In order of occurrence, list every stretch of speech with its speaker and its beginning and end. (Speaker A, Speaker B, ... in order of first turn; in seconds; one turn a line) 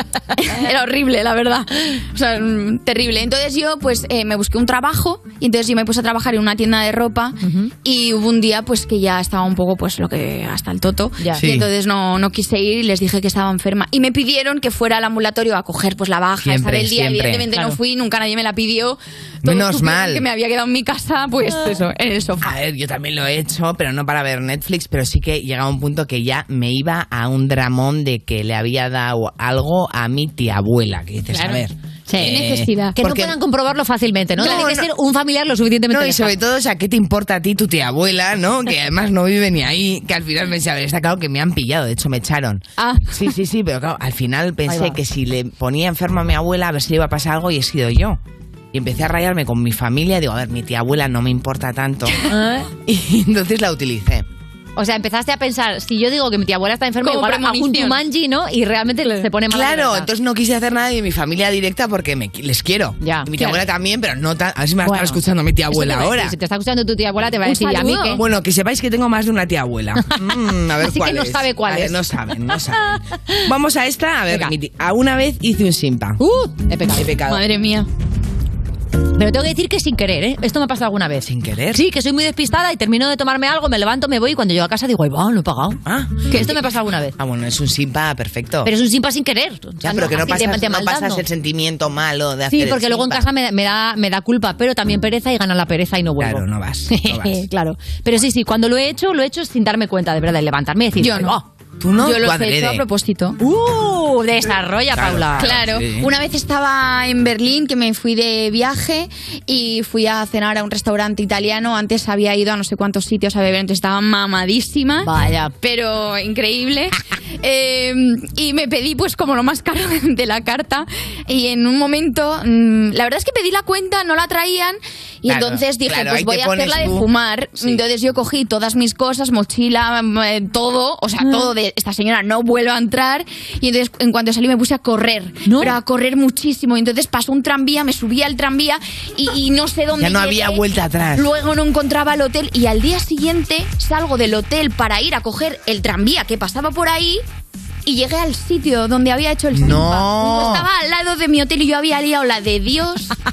Speaker A: 0.4-22.5
Speaker B: 7.4-7.7
Speaker B: 11.2-11.4
Speaker C: 11.3-11.7
Speaker C: 16.4-17.5
Speaker B: 17.5-17.8
Speaker C: 19.4-20.2
Speaker C: 22.4-33.3
Speaker B: 31.3-32.4
Speaker A: 32.2-33.0
Speaker B: 33.0-36.3
Speaker C: 34.4-34.9
Speaker A: 34.4-34.7
Speaker C: 35.9-48.2
Speaker A: 42.8-43.1
Speaker B: 44.7-45.0
Speaker C: 48.7-52.2
Speaker B: 52.3-52.7
Speaker C: 52.8-54.2
Speaker B: 54.8-60.1
Speaker A: 57.0-58.0
Speaker C: 59.5-66.3
Speaker B: 63.0-63.6
Speaker B: 64.8-65.2
Speaker B: 65.7-68.2
Speaker A: 67.4-68.2
Speaker C: 68.1-72.9
Speaker B: 70.8-72.0
Speaker C: 73.4-76.2
Speaker B: 76.2-77.1
Speaker C: 76.9-77.4
Speaker A: 77.3-77.9
Speaker B: 79.2-87.1
Speaker C: 81.2-81.8
Speaker C: 85.8-86.6
Speaker C: 87.2-88.7
Speaker B: 88.6-91.2
Speaker C: 89.8-93.3
Speaker B: 92.5-101.4
Speaker C: 96.2-97.4
Speaker A: 101.0-101.4
Speaker C: 101.8-102.8
Speaker A: 102.0-103.4
Speaker B: 103.4-105.6
Speaker C: 104.9-106.1
Speaker A: 105.4-140.6
Speaker B: 115.0-115.5
Speaker C: 125.2-127.1
Speaker B: 131.2-131.5
Speaker B: 135.4-135.8
Speaker C: 140.0-141.3
Speaker A: 141.2-147.2
Speaker A: 147.8-153.1
Speaker C: 149.5-150.7